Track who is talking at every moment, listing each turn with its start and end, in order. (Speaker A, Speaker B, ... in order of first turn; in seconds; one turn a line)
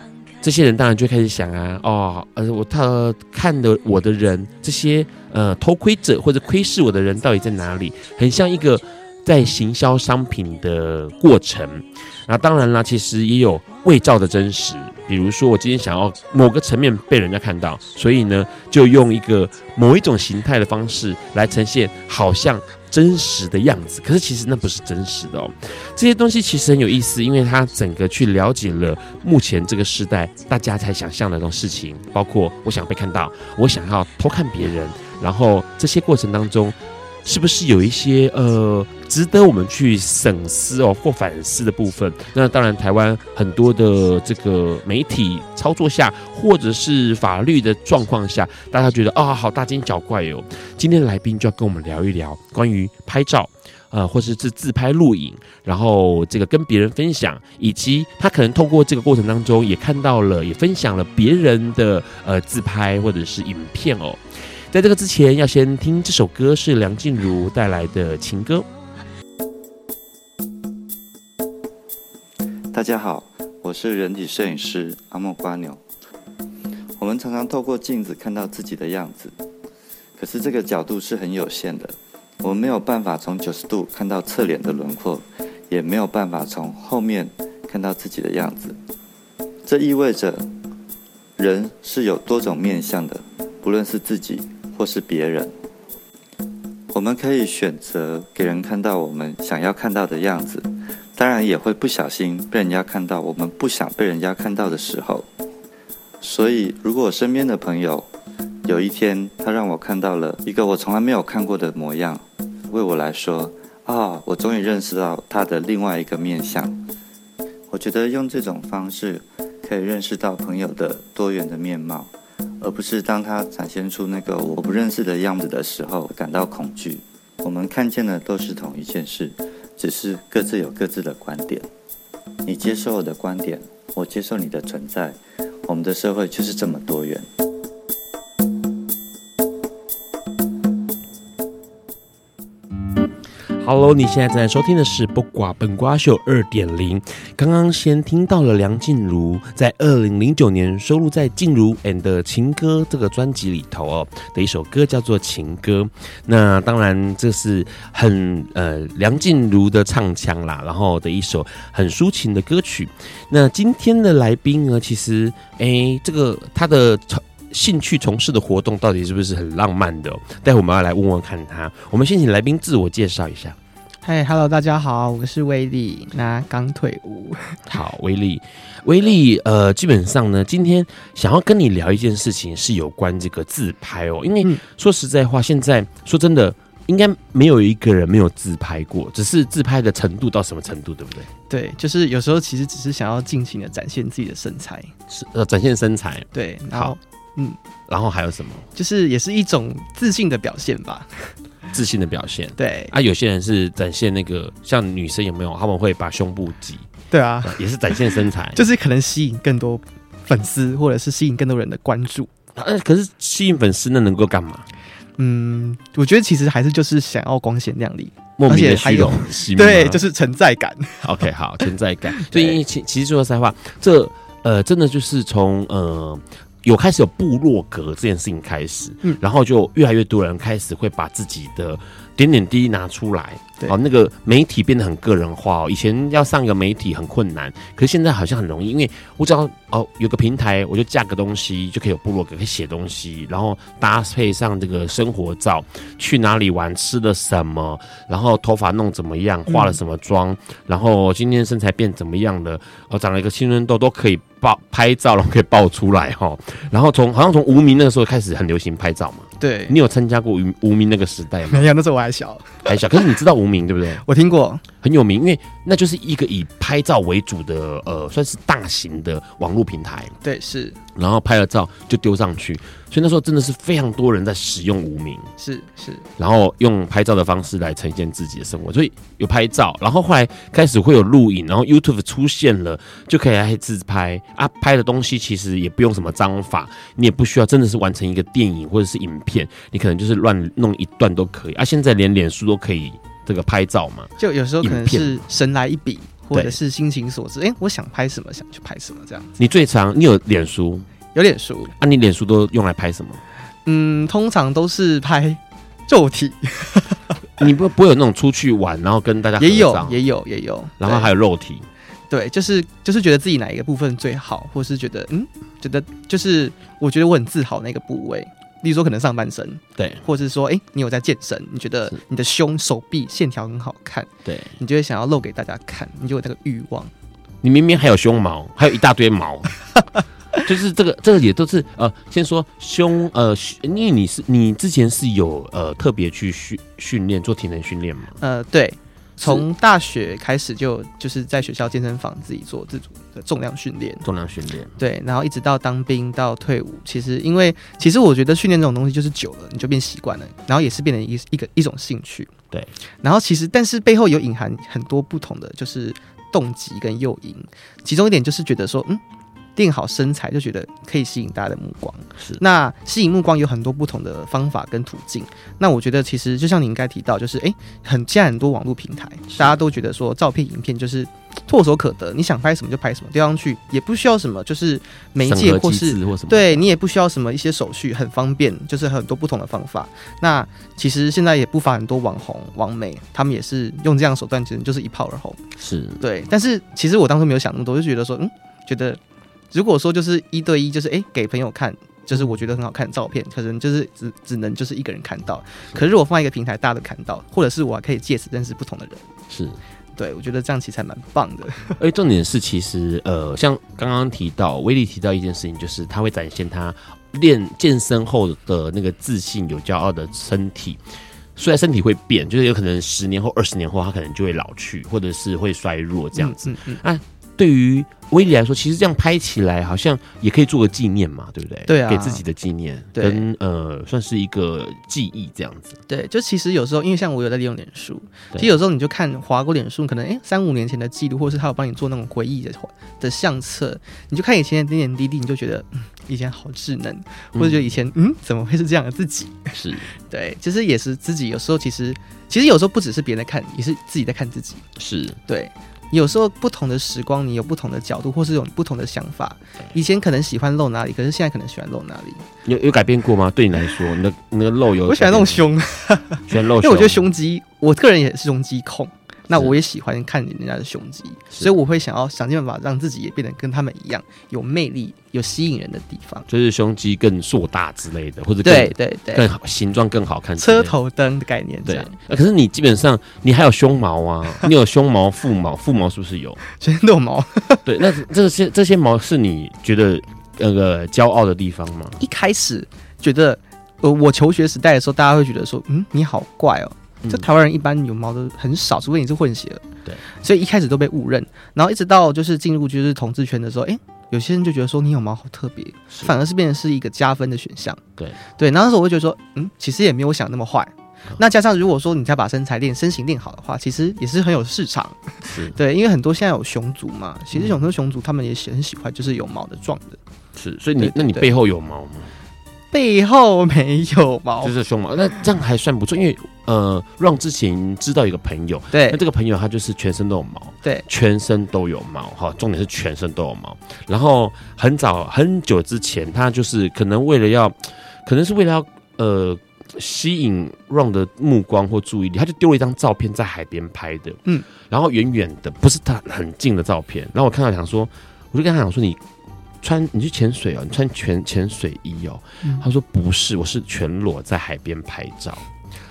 Speaker A: 0.4-64.2
Speaker A: 64.7-68.7
Speaker B: 72.7-75.8
Speaker B: 77.0-79.3
Speaker B: 80.2-88.8
Speaker B: 89.7-90.5
Speaker B: 91.4-95.5
Speaker B: 96.9-105.3
Speaker B: 106.2-108.1
Speaker B: 108.7-116.8
Speaker B: 117.7-131.7
Speaker B: 132.5-137.3
Speaker A: 143.6-173.6
Speaker C: 174.0-177.6
Speaker A: 177.7-191.3
Speaker C: 191.5-194.9
Speaker A: 195.1-196.9
Speaker C: 196.3-197.6
Speaker A: 197.9-198.7
Speaker C: 198.8-201.3
Speaker A: 201.7-206.9
Speaker C: 202.6-202.9
Speaker C: 207.1-207.6
Speaker A: 207.4-208.6
Speaker C: 208.6-212.3
Speaker A: 212.6-214.7
Speaker C: 215.2-221.1
Speaker A: 218.4-220.0
Speaker A: 221.0-261.6
Speaker C: 222.2-222.6
Speaker C: 249.5-249.8
Speaker C: 259.4-259.8
Speaker C: 261.5-263.0
Speaker A: 262.7-264.0
Speaker C: 264.0-264.6
Speaker A: 264.8-270.1
Speaker C: 270.2-270.8
Speaker A: 270.9-275.3
Speaker C: 275.4-276.1
Speaker A: 276.2-295.2
Speaker C: 294.2-299.3
Speaker A: 299.4-300.9
Speaker C: 301.1-301.7
Speaker A: 301.8-303.2
Speaker C: 303.7-307.1
Speaker A: 307.4-310.0
Speaker C: 309.4-311.1
Speaker A: 310.8-311.7
Speaker C: 312.1-326.9
Speaker A: 319.8-320.0
Speaker A: 324.2-324.6
Speaker A: 327.4-329.6
Speaker A: 330.4-338.2
Speaker C: 338.2-344.0
Speaker A: 344.0-344.7
Speaker C: 344.8-352.3
Speaker C: 353.0-359.0
Speaker C: 359.6-385.4
Speaker A: 375.2-376.6
Speaker A: 385.6-386.0
Speaker C: 386.0-389.0
Speaker C: 389.5-399.1
Speaker A: 399.3-399.6
Speaker C: 400.0-401.8
Speaker A: 401.8-410.8
Speaker A: 411.4-425.8
Speaker C: 416.1-416.8
Speaker C: 421.7-422.2
Speaker C: 422.9-423.2
Speaker C: 425.9-439.5
Speaker A: 437.4-437.7
Speaker A: 439.5-439.9
Speaker C: 440.1-444.6
Speaker A: 444.8-445.2
Speaker C: 445.3-452.2
Speaker A: 452.4-455.5
Speaker C: 454.9-466.3
Speaker A: 456.3-457.0
Speaker A: 466.3-470.8
Speaker C: 468.4-469.3
Speaker C: 470.4-471.9
Speaker A: 471.7-476.4
Speaker C: 476.6-477.7
Speaker A: 477.6-482.0
Speaker C: 482.0-489.6
Speaker C: 490.2-497.8
Speaker C: 498.4-510.0
Speaker A: 505.2-505.6
Speaker A: 510.4-512.1
Speaker C: 510.8-511.3
Speaker C: 512.7-514.5
Speaker A: 514.4-539.0
Speaker C: 518.7-519.0
Speaker A: 539.6-545.5